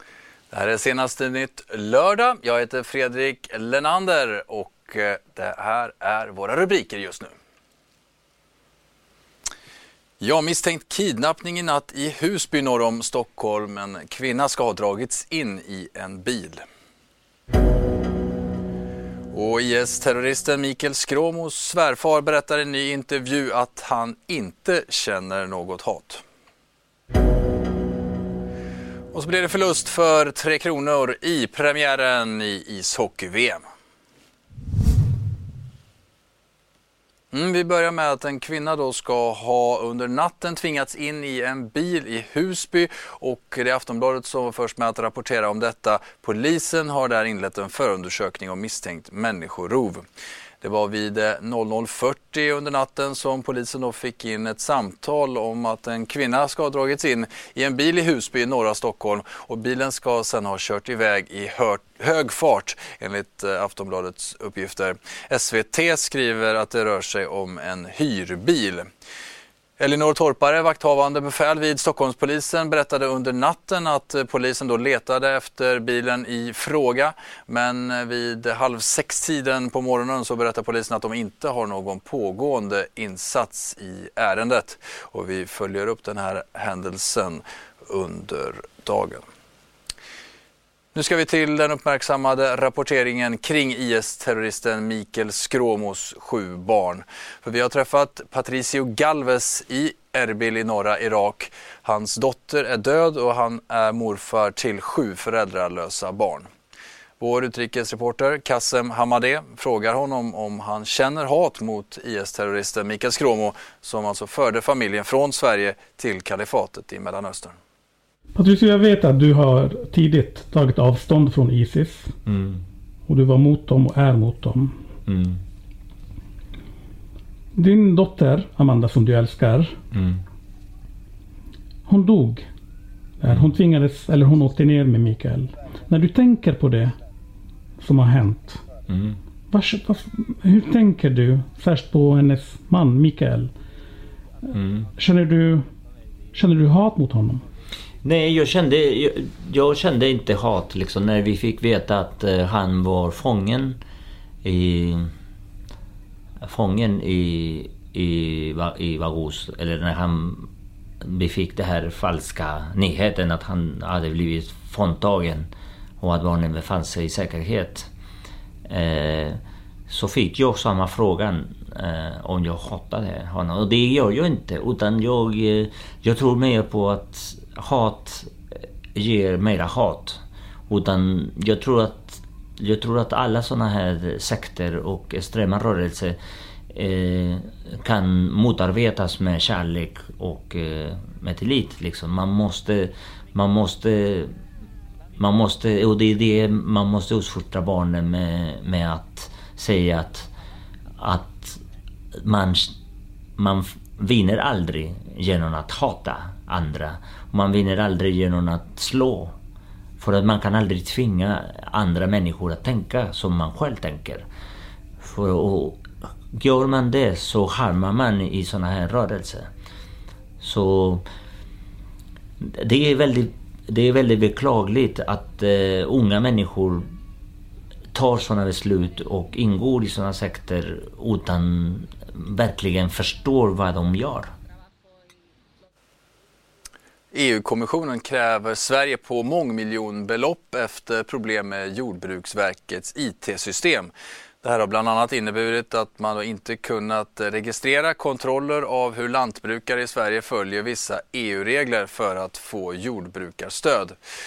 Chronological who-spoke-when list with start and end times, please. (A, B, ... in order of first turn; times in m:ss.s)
0:00.5-0:07.3 A
0:10.2-0:16.6 A
0:19.3-0:26.2 A
0:29.1-0:33.6 A
0:37.3-0:50.0 A
0:50.6-1:08.8 A
1:09.8-1:29.2 A
1:30.9-1:46.5 A
1:47.2-1:57.6 A
1:58.4-2:02.1 B
2:02.3-2:02.6 C
2:03.1-2:04.8 B
2:05.1-2:05.4 C
2:07.5-2:09.8 B
2:11.9-2:12.5 B
2:13.2-2:17.0 B
2:13.2-2:13.6 C
2:17.8-2:18.6 B
2:18.9-2:19.1 C
2:19.5-2:23.5 B
2:24.5-2:24.8 C
2:24.9-2:25.7 B
2:26.3-2:27.4 B
2:28.0-2:33.8 C
2:34.4-2:35.1 C
2:36.4-2:40.5 C
2:41.0-2:45.5 C
2:46.0-2:47.9 C
2:48.7-2:58.3 C
2:58.9-3:06.2 C
3:06.7-3:14.4 C
3:15.2-3:20.3 C
3:21.0-3:21.6 C
3:22.2-3:22.7 C
3:23.4-3:29.4 C
3:30.0-3:34.2 C
3:35.0-3:39.5 C
3:40.4-3:41.0 C
3:42.5-3:46.9 C
3:47.9-3:54.3 C
3:57.1-4:03.9 A
4:04.4-4:14.0 A